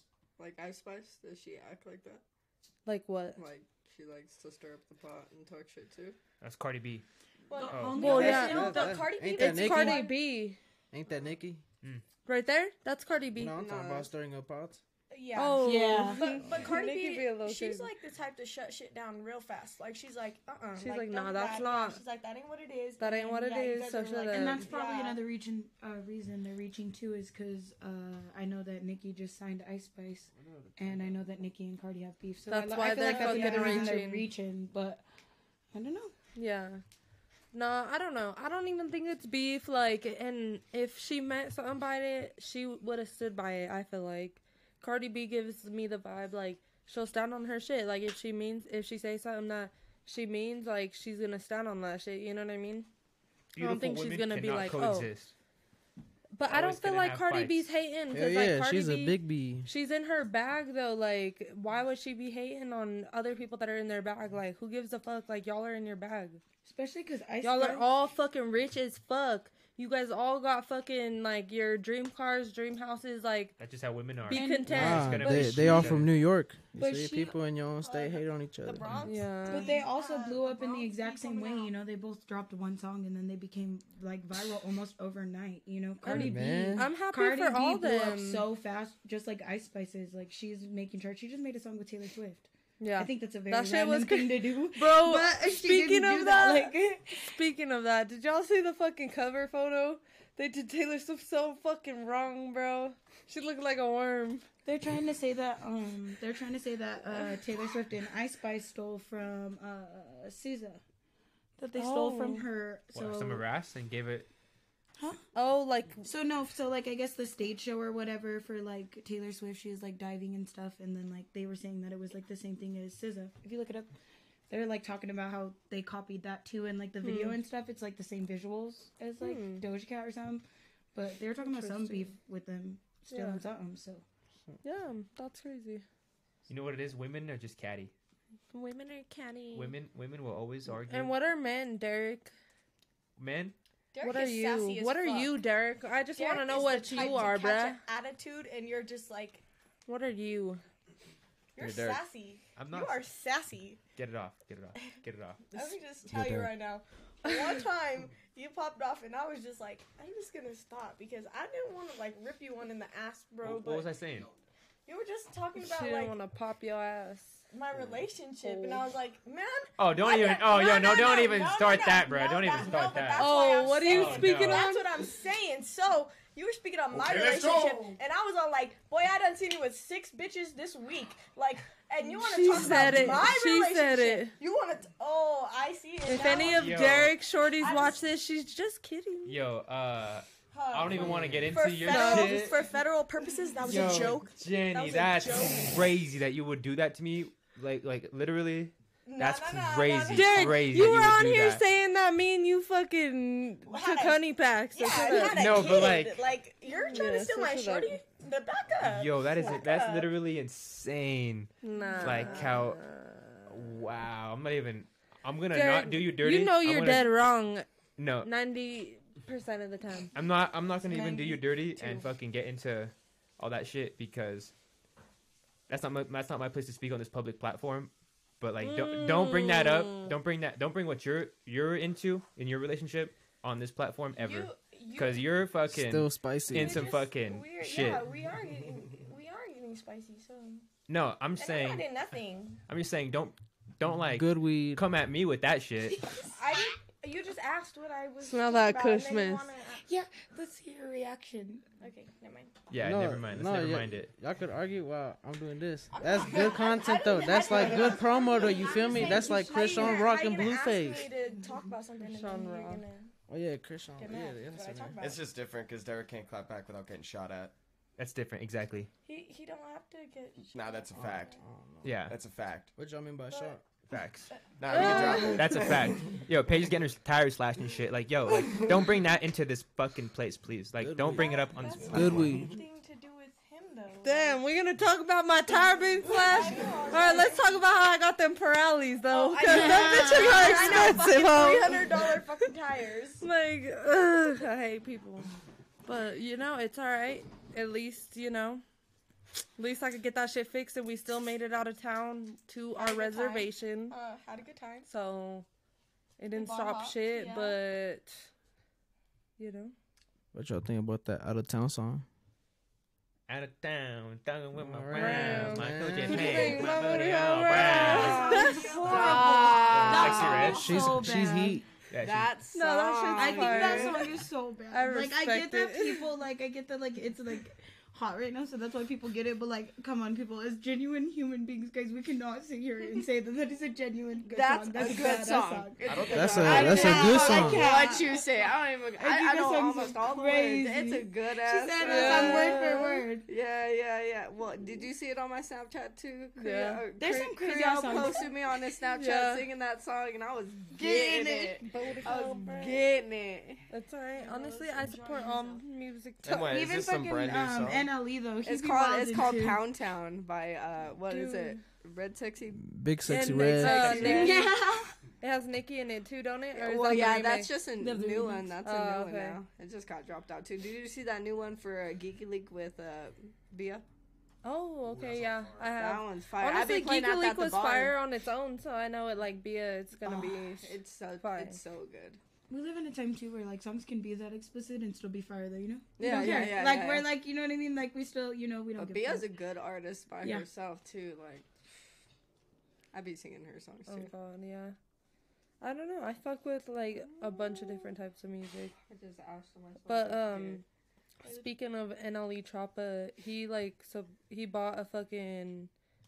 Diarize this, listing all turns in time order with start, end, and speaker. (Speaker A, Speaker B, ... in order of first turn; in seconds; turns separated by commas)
Speaker A: 0.4-2.2, Speaker B: 2.9-3.5, Speaker A: 3.4-6.2, Speaker C: 6.4-7.0, Speaker D: 7.5-10.1, Speaker E: 7.5-9.0, Speaker C: 7.7-8.2, Speaker B: 7.9-10.6, Speaker F: 8.1-10.1, Speaker F: 10.9-11.6, Speaker B: 12.3-13.6, Speaker F: 13.4-14.8, Speaker A: 13.6-14.1, Speaker D: 15.1-25.2, Speaker B: 15.3-17.9, Speaker E: 15.6-16.4, Speaker B: 20.8-22.0, Speaker B: 23.0-24.7, Speaker E: 24.3-35.0, Speaker F: 30.3-31.2, Speaker B: 32.5-34.3, Speaker D: 33.0-33.9, Speaker E: 35.7-36.1, Speaker B: 36.4-36.8, Speaker B: 37.5-52.9, Speaker C: 53.5-55.3, Speaker B: 53.6-55.1, Speaker B: 56.3-66.4, Speaker C: 56.4-57.7, Speaker F: 58.1-59.7, Speaker E: 66.6-67.9, Speaker B: 67.4-73.6, Speaker C: 73.6-76.1, Speaker B: 74.3-75.7, Speaker E: 74.3-76.0, Speaker F: 74.7-79.1, Speaker E: 76.8-77.3, Speaker D: 77.8-81.8, Speaker B: 79.0-79.8, Speaker E: 79.5-97.4, Speaker B: 86.0-88.5, Speaker F: 86.1-86.9, Speaker B: 92.8-104.5, Speaker E: 104.7-110.8, Speaker E: 111.6-113.5, Speaker B: 111.8-112.5, Speaker C: 112.9-114.3, Speaker E: 115.0-115.2, Speaker B: 115.3-116.0, Speaker E: 116.0-123.9, Speaker E: 124.5-134.1, Speaker B: 127.0-127.4, Speaker B: 129.2-129.7, Speaker B: 131.4-132.1, Speaker B: 133.1-133.4, Speaker B: 134.6-135.8, Speaker C: 136.5-137.9, Speaker B: 138.5-139.8, Speaker C: 139.5-141.2, Speaker B: 140.7-142.3, Speaker C: 143.2-143.5, Speaker D: 143.9-145.4, Speaker B: 144.0-147.8, Speaker D: 146.1-149.4, Speaker B: 149.9-150.6, Speaker D: 151.6-153.8, Speaker G: 151.6-152.1, Speaker C: 152.6-153.0, Speaker C: 154.0-155.7, Speaker D: 155.5-164.0, Speaker F: 156.1-156.5, Speaker C: 163.4-164.3, Speaker D: 164.9-166.2, Speaker B: 165.6-167.4, Speaker D: 167.5-186.9, Speaker B: 168.4-168.9, Speaker C: 169.8-174.7, Speaker B: 173.2-174.9, Speaker B: 182.0-184.4, Speaker B: 186.0-189.4, Speaker C: 186.4-187.2, Speaker D: 187.6-188.1, Speaker C: 189.3-192.6, Speaker D: 190.5-195.9, Speaker F: 191.1-191.4, Speaker B: 191.8-192.5, Speaker C: 193.6-201.6, Speaker D: 199.1-201.1, Speaker B: 200.1-205.9, Speaker D: 203.7-210.2, Speaker C: 205.1-206.3, Speaker B: 206.7-208.0, Speaker C: 208.8-212.8, Speaker B: 211.6-213.5, Speaker D: 211.8-212.5, Speaker C: 213.5-217.1, Speaker B: 215.5-217.7, Speaker C: 218.0-218.3, Speaker B: 218.2-220.1, Speaker C: 220.2-224.5, Speaker D: 220.9-222.1, Speaker C: 225.7-238.1, Speaker B: 228.6-230.1, Speaker D: 234.2-235.3, Speaker F: 235.7-236.9, Speaker D: 236.5-240.7, Speaker C: 240.9-242.0, Speaker D: 241.3-242.6, Speaker C: 242.7-246.1, Speaker F: 243.9-244.8, Speaker D: 246.1-249.8, Speaker B: 248.2-249.5, Speaker E: 249.8-251.8, Speaker D: 251.8-252.5, Speaker C: 252.7-254.1, Speaker F: 252.8-261.1, Speaker D: 255.9-263.1, Speaker E: 259.0-260.1, Speaker B: 262.1-262.8, Speaker F: 263.3-264.9, Speaker D: 264.0-265.2, Speaker G: 265.0-267.5, Speaker C: 268.0-268.9, Speaker D: 269.1-271.3, Speaker G: 270.5-271.4, Speaker F: 271.0-272.0, Speaker C: 271.8-272.2, Speaker G: 272.1-272.8, Speaker F: 272.8-273.6, Speaker D: 273.3-273.6, Speaker C: 273.9-274.3, Speaker D: 274.3-275.4, Speaker G: 274.6-275.7, Speaker B: 274.7-275.4, Speaker C: 275.2-282.3, Speaker F: 280.8-282.6, Speaker D: 281.1-284.4, Speaker B: 284.0-291.7, Speaker D: 286.0-287.6, Speaker D: 289.1-293.2, Speaker E: 289.5-290.6, Speaker F: 290.5-291.8, Speaker B: 293.2-295.3, Speaker B: 295.9-298.6, Speaker B: 299.6-304.0, Speaker D: 302.8-304.9, Speaker B: 304.9-305.5, Speaker B: 306.2-308.3, Speaker D: 306.4-307.6, Speaker B: 309.4-309.8, Speaker F: 310.3-312.1, Speaker C: 313.3-318.4, Speaker F: 314.6-316.5, Speaker B: 315.0-319.4, Speaker A: 317.5-320.8, Speaker E: 318.0-321.6, Speaker C: 319.8-321.2, Speaker F: 320.4-321.6, Speaker C: 321.9-322.4, Speaker A: 322.0-324.1, Speaker B: 322.5-324.0, Speaker E: 323.1-338.2, Speaker B: 324.7-326.1, Speaker A: 334.3-353.7, Speaker G: 335.9-337.3, Speaker F: 336.1-337.7, Speaker E: 339.0-343.3, Speaker B: 341.8-343.0, Speaker B: 346.4-346.9, Speaker E: 347.0-348.3, Speaker B: 348.9-349.5, Speaker E: 350.8-351.7, Speaker B: 351.7-352.8, Speaker D: 351.9-352.8, Speaker B: 353.7-356.5, Speaker D: 354.2-355.6, Speaker G: 356.2-357.9, Speaker E: 356.4-359.7, Speaker A: 358.4-362.6, Speaker B: 361.1-361.6, Speaker F: 362.6-364.2, Speaker B: 363.1-364.5, Speaker A: 363.5-364.6, Speaker E: 364.0-364.9, Speaker B: 365.2-367.6, Speaker A: 366.5-373.9, Speaker E: 367.8-368.5, Speaker B: 368.6-369.4, Speaker B: 374.4-381.6, Speaker A: 375.6-377.9, Speaker E: 380.1-380.5, Speaker A: 380.1-382.2, Speaker E: 382.5-389.3, Speaker A: 386.0-387.1, Speaker B: 386.1-386.5, Speaker A: 388.8-391.5, Speaker E: 390.2-390.5, Speaker A: 392.9-394.1, Speaker B: 393.9-394.8, Speaker B: 395.6-398.7, Speaker A: 398.8-400.6, Speaker B: 399.9-400.6, Speaker B: 401.2-405.7